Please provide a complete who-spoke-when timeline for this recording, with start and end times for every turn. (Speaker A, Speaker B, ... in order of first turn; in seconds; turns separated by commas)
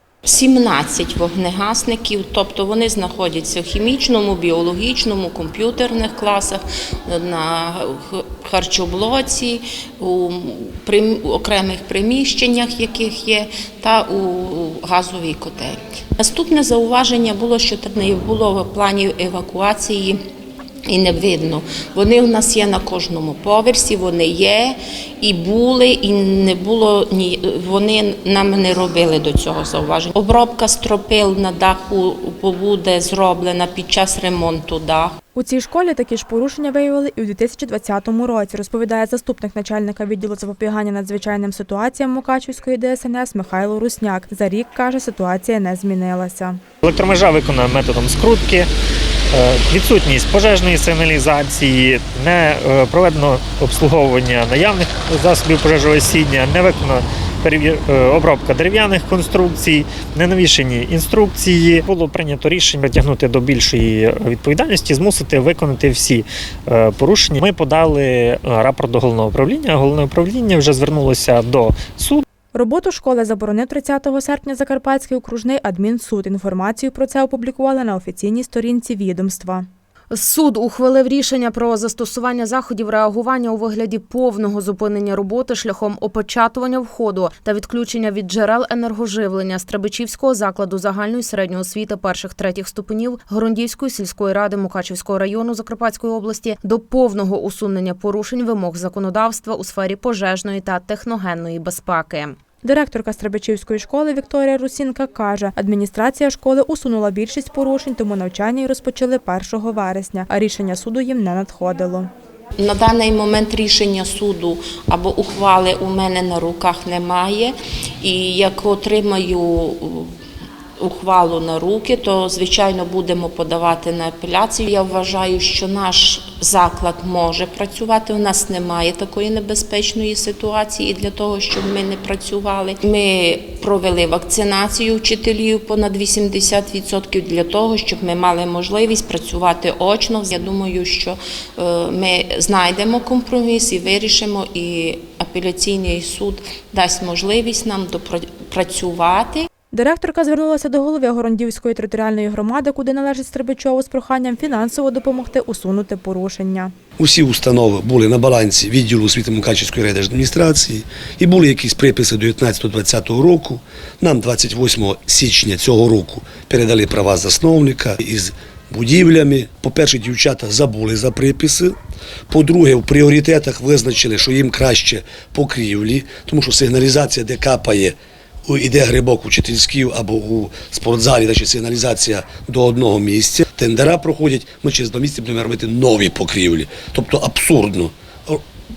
Speaker A: 0.3-20.2, Speaker A: 20.9-35.2, Speaker B: 35.4-46.6, Speaker C: 46.8-48.7, Speaker C: 49.3-72.2, Speaker B: 72.5-79.7, Speaker D: 80.1-102.4, Speaker B: 102.6-112.1, Speaker A: 112.6-120.1, Speaker A: 120.8-149.5, Speaker B: 149.7-156.7, Speaker E: 157.0-171.8, Speaker E: 172.3-188.4